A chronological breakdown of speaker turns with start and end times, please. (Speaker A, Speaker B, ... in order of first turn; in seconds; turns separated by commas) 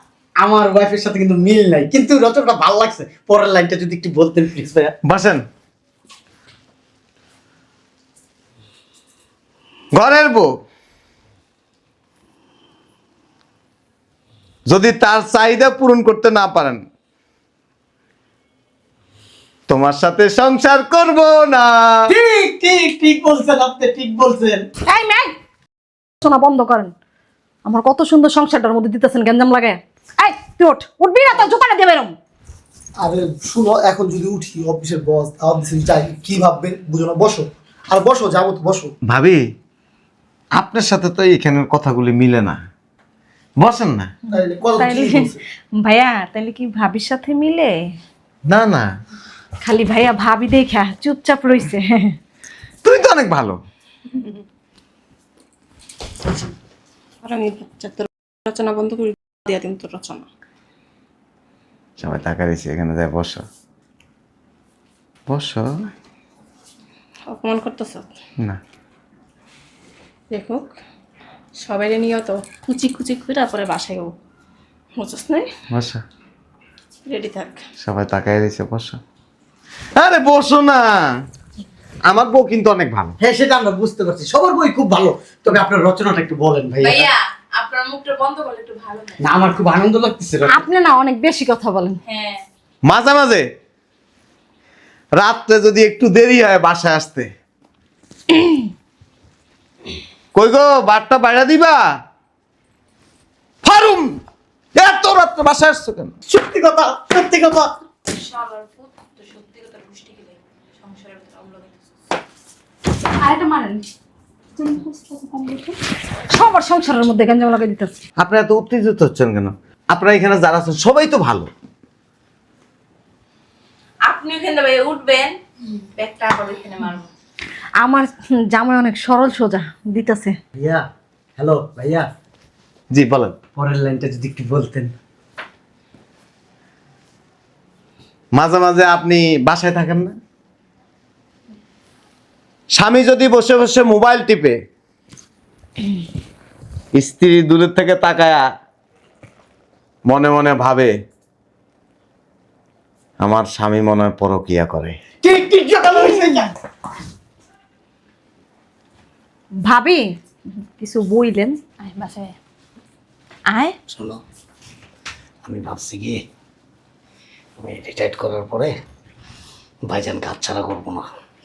Speaker A: 0.4-4.9, Speaker B: 5.1-5.4, Speaker B: 9.9-10.5, Speaker B: 14.7-16.8, Speaker B: 19.7-22.1, Speaker A: 22.1-24.7, Speaker C: 24.9-25.3, Speaker C: 26.2-26.9, Speaker C: 27.6-32.1, Speaker D: 33.0-38.9, Speaker B: 39.1-39.4, Speaker B: 40.5-42.6, Speaker B: 43.6-44.1, Speaker D: 44.3-45.4, Speaker C: 44.7-47.7, Speaker B: 48.5-48.9, Speaker C: 49.6-52.2, Speaker B: 52.8-53.6, Speaker E: 57.2-60.3, Speaker B: 62.0-63.4, Speaker B: 65.3-65.8, Speaker E: 67.3-68.1, Speaker E: 70.3-70.7, Speaker E: 71.6-74.1, Speaker E: 75.0-75.5, Speaker B: 75.7-76.0, Speaker E: 77.1-77.7, Speaker B: 77.8-79.0, Speaker B: 80.0-81.1, Speaker B: 82.1-83.1, Speaker A: 83.2-87.1, Speaker F: 86.8-89.3, Speaker A: 89.2-90.6, Speaker C: 90.5-92.0, Speaker F: 92.1-92.5, Speaker B: 92.9-93.5, Speaker B: 95.2-97.3, Speaker B: 100.3-101.8, Speaker B: 103.6-104.2, Speaker B: 104.8-106.1, Speaker A: 106.3-107.7, Speaker F: 108.1-111.9, Speaker C: 113.2-113.9, Speaker C: 114.6-115.8, Speaker C: 116.3-117.9, Speaker B: 118.2-121.5, Speaker F: 124.1-125.4, Speaker F: 126.0-127.1, Speaker C: 127.8-130.4, Speaker A: 130.6-130.8, Speaker A: 131.4-132.1, Speaker B: 132.9-133.3, Speaker A: 133.6-134.9, Speaker B: 138.3-140.1, Speaker B: 142.8-144.6, Speaker B: 147.0-148.4, Speaker B: 150.1-150.9, Speaker B: 153.2-154.9, Speaker A: 155.2-156.5, Speaker C: 159.6-160.1, Speaker C: 160.8-161.6, Speaker F: 161.8-162.3, Speaker F: 163.5-163.8, Speaker G: 163.9-164.2, Speaker G: 165.4-166.2, Speaker G: 167.6-168.7, Speaker G: 169.9-171.1